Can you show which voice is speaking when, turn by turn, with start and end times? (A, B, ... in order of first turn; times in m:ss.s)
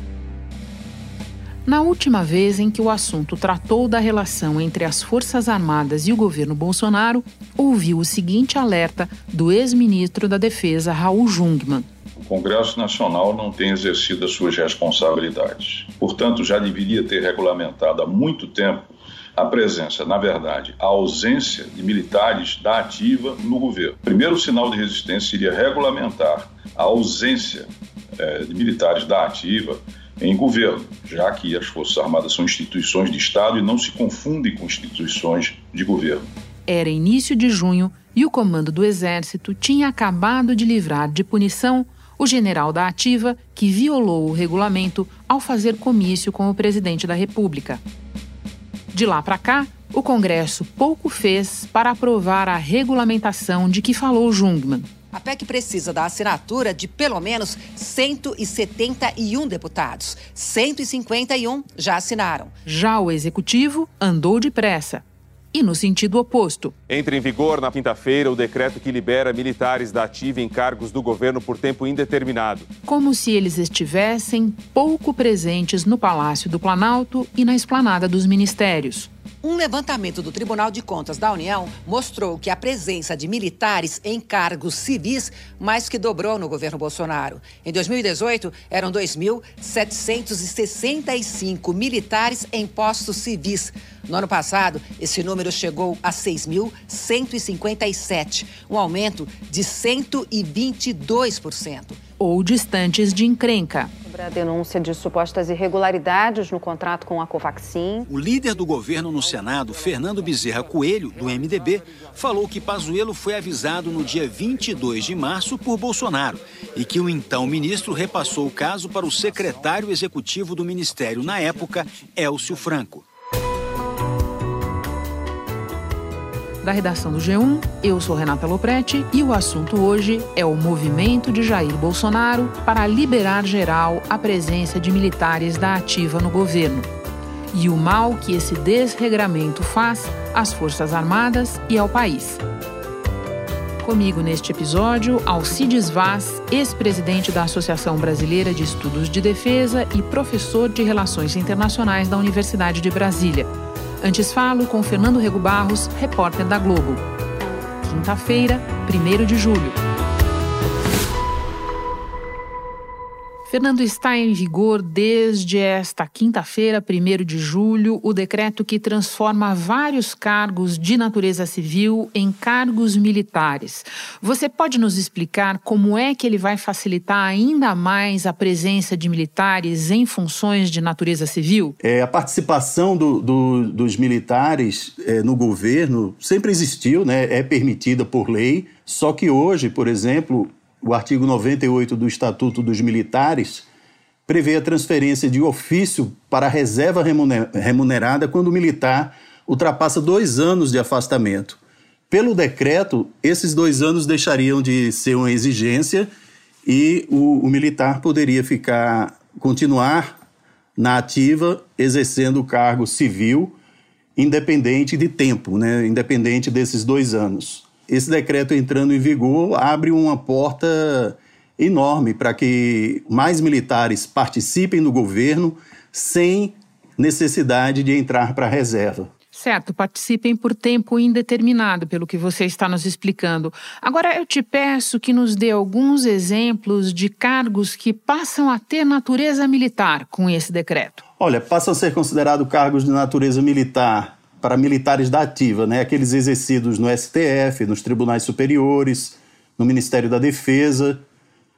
0:01.6-0:11.9 A
0:12.2-0:36.3 B
0:36.7-0:47.8 A
0:48.9-0:54.9 A
0:55.1-1:02.5 C
1:02.6-1:06.7 A
1:06.9-1:12.7 D
1:12.8-1:19.1 A
1:19.4-1:42.0 C
1:42.2-1:43.9 A
1:44.1-1:48.0 E
1:48.1-2:03.0 F
2:06.6-2:16.9 A
2:17.5-2:22.4 A
2:23.8-2:33.5 A
2:34.0-2:37.0 A
2:37.8-2:39.8 A
2:43.5-3:01.8 A
3:01.8-3:13.6 G
3:14.3-3:21.6 G
3:22.1-3:26.1 G
3:26.6-3:30.1 G
3:30.8-3:33.5 G
3:34.2-3:49.1 G
3:49.3-4:01.0 A
4:01.2-4:11.0 G